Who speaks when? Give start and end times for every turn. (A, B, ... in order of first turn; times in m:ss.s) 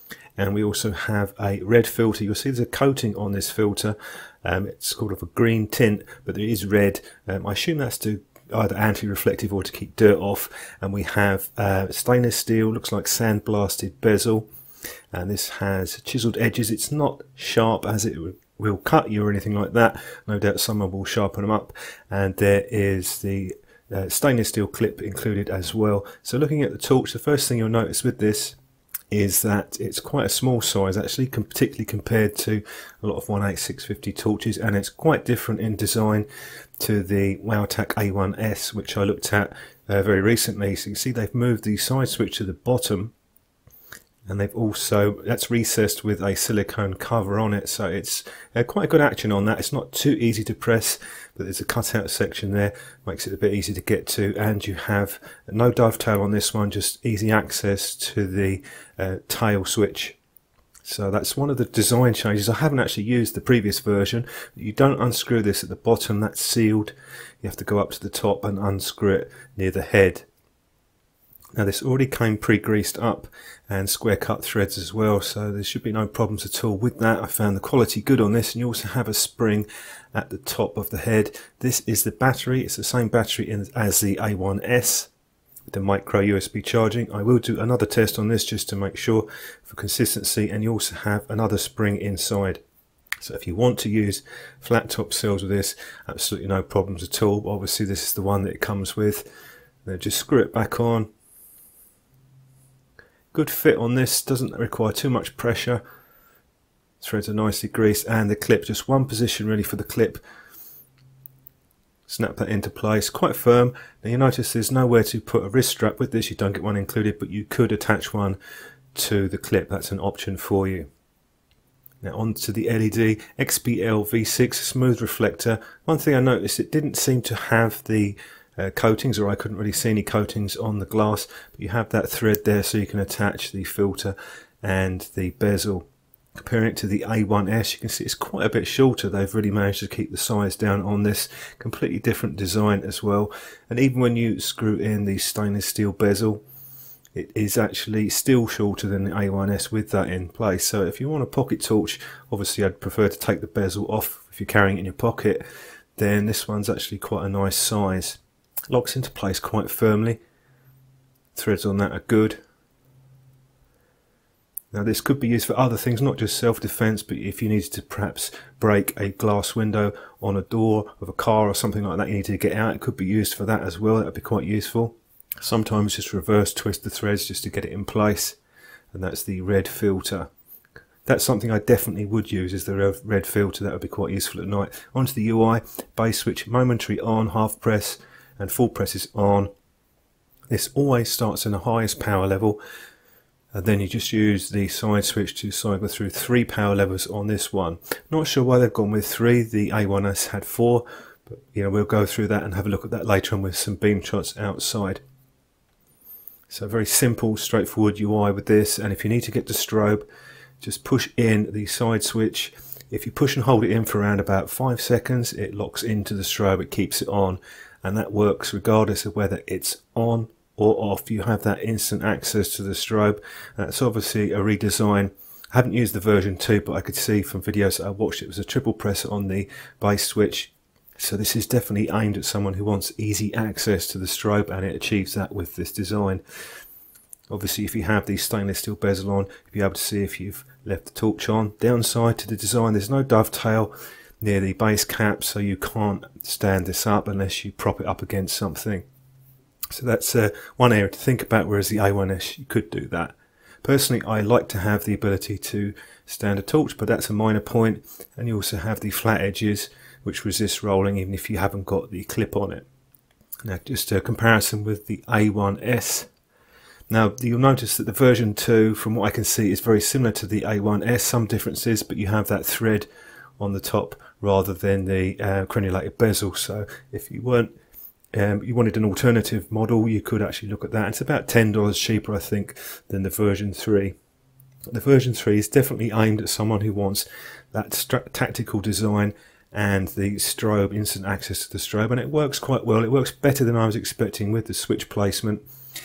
0:00.4-0:14.5 A
0:15.1-0:28.6 A
0:29.1-0:36.3 A
0:36.8-0:43.1 A
0:44.3-1:00.2 A
1:00.8-1:10.3 A
1:11.6-1:25.1 A
1:25.7-1:32.6 A
1:33.2-1:39.3 A
1:39.8-1:41.1 A
1:43.3-1:45.8 A
1:47.0-1:50.2 A
1:52.1-1:58.4 A
1:58.9-2:00.9 A
2:02.0-2:26.4 A
2:27.1-2:35.4 A
2:36.0-2:40.2 A
2:41.3-2:42.4 A
2:44.7-2:58.4 A
2:58.9-3:00.3 A
3:01.0-3:09.5 A
3:10.5-3:12.6 A
3:13.5-3:25.0 A
3:26.5-3:30.0 A
3:30.6-3:56.2 A
3:57.3-4:08.8 A
4:09.7-4:22.7 A
4:23.4-4:26.1 A
4:26.9-4:32.9 A
4:33.4-4:37.5 A
4:38.1-4:44.0 A
4:44.7-4:55.4 A